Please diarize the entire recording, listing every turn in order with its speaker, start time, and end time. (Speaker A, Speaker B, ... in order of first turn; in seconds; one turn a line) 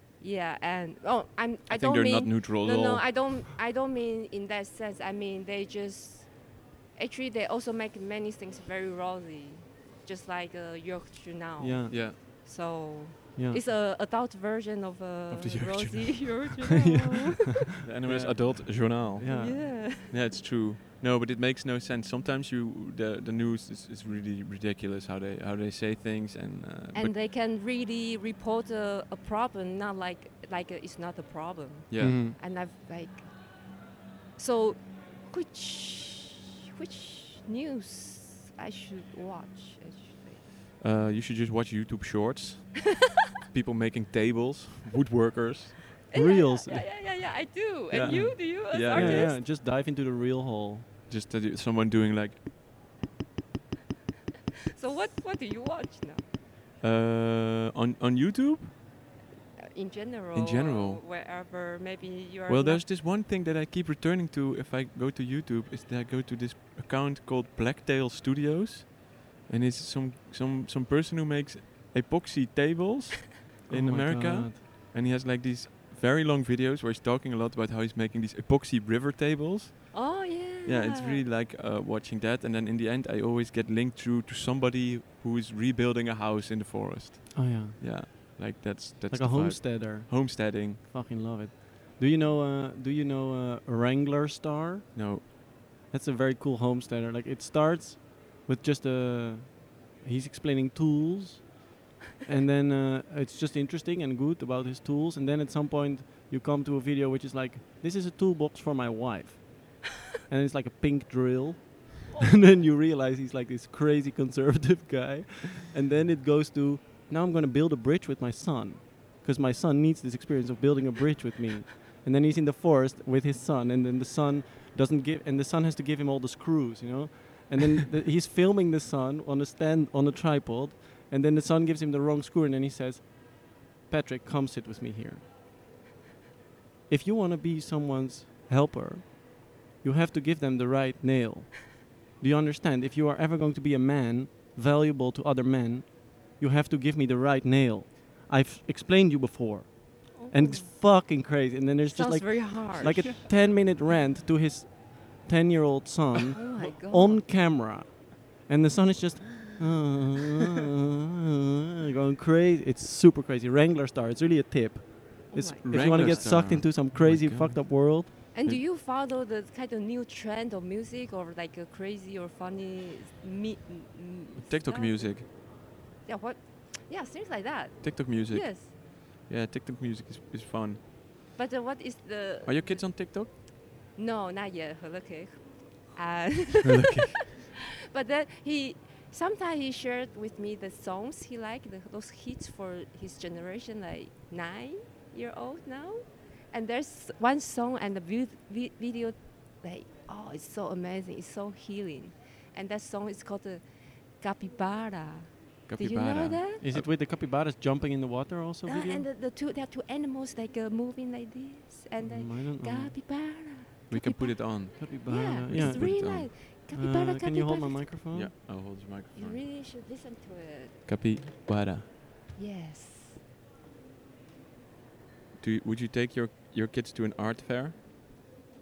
Speaker A: 0.2-17.7
Speaker B: 1.7-3.0
Speaker C: 11.6-12.0
Speaker B: 11.9-12.2
Speaker C: 13.3-13.6
Speaker B: 15.3-16.5
Speaker C: 16.7-19.7
Speaker B: 17.8-27.1
Speaker A: 19.3-20.1
Speaker A: 26.9-33.7
Speaker B: 31.9-32.2
Speaker C: 32.0-32.4
Speaker A: 34.4-40.4
Speaker B: 40.8-43.0
Speaker B: 43.5-45.8
Speaker A: 46.1-49.4
Speaker C: 46.1-46.9
Speaker B: 47.9-49.3
Speaker C: 48.9-50.9
Speaker B: 51.1-52.4
Speaker A: 54.7-56.2
Speaker B: 56.8-58.7
Speaker A: 59.6-62.9
Speaker B: 60.3-61.0
Speaker B: 62.5-90.8
Speaker C: 73.7-74.6
Speaker A: 79.9-81.2
Speaker C: 87.3-87.8
Speaker C: 89.1-95.3
Speaker B: 94.9-95.2
Speaker C: 95.9-101.7
Speaker C: 102.2-135.2
Speaker C: 136.9-168.1
Speaker A: 150.1-150.7
Speaker A: 151.9-153.1
Speaker A: 156.3-157.2
Speaker A: 165.3-166.3
Speaker B: 165.4-168.6
Speaker A: 168.3-175.3
Speaker B: 174.4-175.3
Speaker A: 176.0-178.7
Speaker B: 177.8-180.8
Speaker A: 181.3-183.3
Speaker B: 182.4-183.3
Speaker A: 183.9-206.6
Speaker B: 205.7-206.9
Speaker C: 206.6-209.1
Speaker A: 208.7-217.8
Speaker C: 212.0-212.9
Speaker B: 213.9-216.3
Speaker C: 214.8-216.2
Speaker C: 216.7-218.3
Speaker B: 218.1-219.4
Speaker A: 219.1-220.8
Speaker B: 220.8-221.9
Speaker A: 222.3-223.2
Speaker B: 225.4-227.8